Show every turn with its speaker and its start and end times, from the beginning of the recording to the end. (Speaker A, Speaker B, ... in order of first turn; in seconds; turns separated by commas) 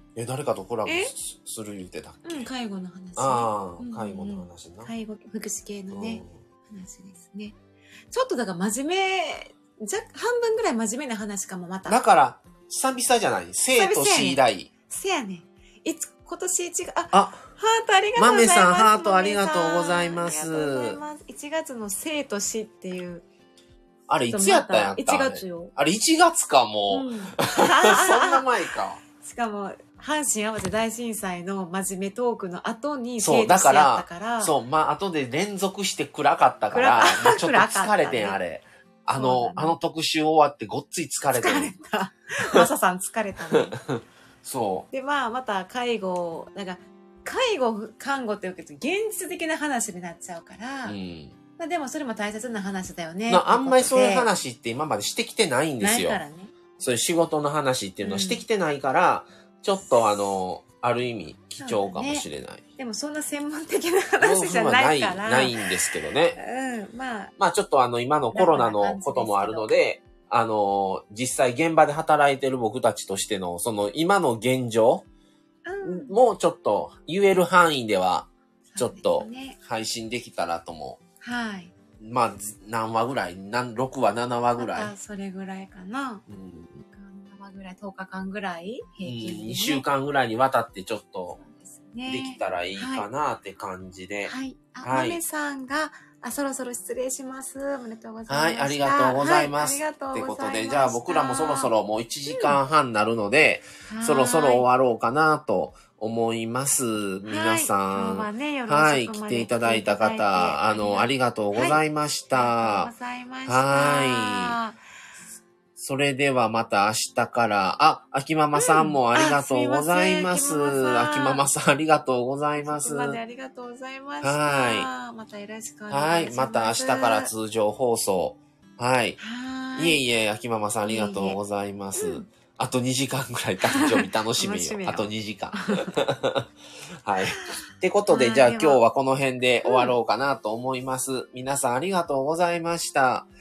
Speaker A: 0.2-2.5, Speaker B: 0.8-1.1, Speaker B: 2.2-7.6, Speaker A: 3.2-4.9, Speaker A: 5.9-6.4, Speaker B: 8.1-12.0, Speaker A: 11.9-14.7, Speaker B: 13.8-23.2, Speaker A: 17.1-17.4, Speaker A: 18.2-21.0, Speaker A: 24.1-29.0, Speaker B: 24.3-25.7, Speaker B: 26.9-28.4, Speaker B: 29.2-34.5, Speaker A: 33.2-41.8, Speaker B: 36.7-38.4, Speaker B: 39.1-39.8, Speaker B: 41.3-43.8, Speaker A: 43.5-44.9, Speaker B: 44.9-51.0, Speaker A: 50.9-51.4, Speaker B: 51.6-54.3, Speaker A: 53.3-56.2, Speaker B: 55.8-56.5, Speaker A: 56.8-62.6, Speaker B: 58.0-58.5, Speaker B: 61.6-62.3, Speaker B: 62.8-65.6, Speaker A: 64.2-66.4, Speaker B: 66.4-67.3, Speaker A: 67.4-75.0, Speaker B: 68.3-69.7, Speaker B: 75.7-76.2, Speaker A: 75.8-81.0, Speaker B: 78.7-79.6, Speaker B: 81.2-81.7, Speaker A: 82.0-84.9, Speaker B: 84.6-86.2, Speaker A: 86.3-86.8, Speaker B: 86.9-89.8, Speaker A: 89.0-91.4, Speaker B: 91.4-93.1, Speaker A: 92.1-95.2, Speaker B: 94.3-101.7, Speaker A: 98.3-112.9, Speaker B: 102.3-102.6, Speaker B: 103.8-104.7, Speaker B: 107.2-111.8, Speaker B: 112.3-114.8, Speaker A: 113.5-114.6, Speaker A: 115.8-123.2, Speaker B: 118.6-121.4, Speaker B: 122.6-127.3, Speaker A: 124.2-124.9, Speaker A: 125.9-129.2, Speaker B: 129.2-130.0, Speaker A: 129.8-143.3, Speaker B: 130.8-131.4, Speaker B: 132.0-132.3, Speaker B: 133.7-135.9, Speaker B: 138.1-138.8, Speaker B: 139.7-139.9